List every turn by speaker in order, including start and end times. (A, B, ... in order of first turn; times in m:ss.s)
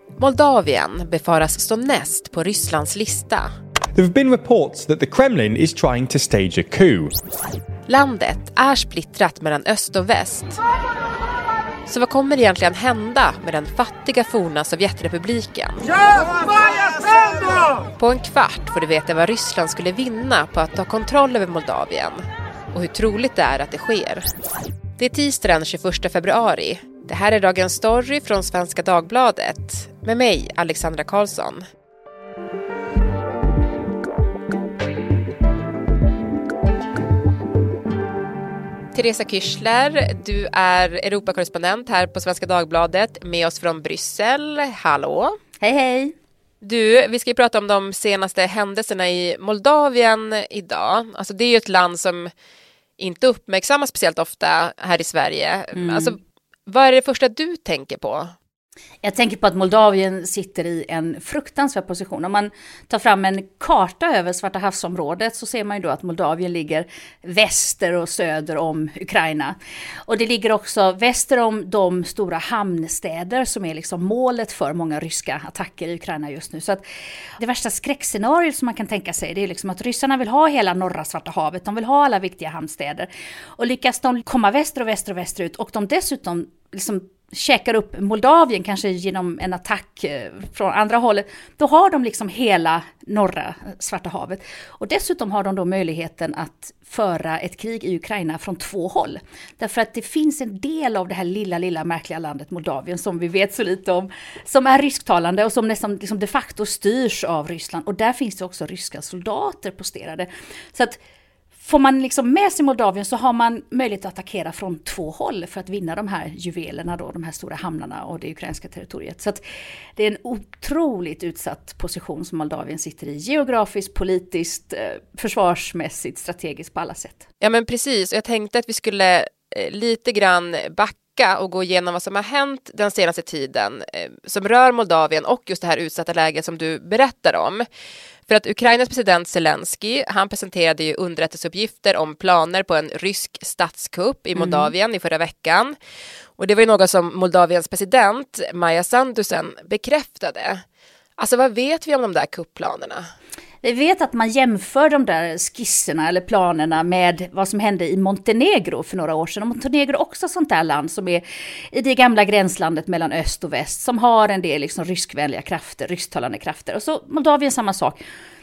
0:00.2-0:03.5 A
0:04.0-0:07.1 B
0:07.9-0:10.6 A
0:11.9-0:24.3 A
0:25.0-0:31.6 A
0:38.9-0:45.4 A
0:45.6-0:46.1 C
0:46.6-0:52.3 A
0:53.0-0:58.3 A
0:55.7-0:56.1 C
0:59.0-1:16.8 C
1:17.4-1:51.0 C
1:51.6-1:59.4 C
2:00.0-2:07.2 C
2:07.4-2:17.6 A
2:18.3-2:25.7 A
2:24.4-2:24.7 C
2:26.4-2:30.6 A
2:31.2-2:33.0 A
2:33.6-2:48.0 C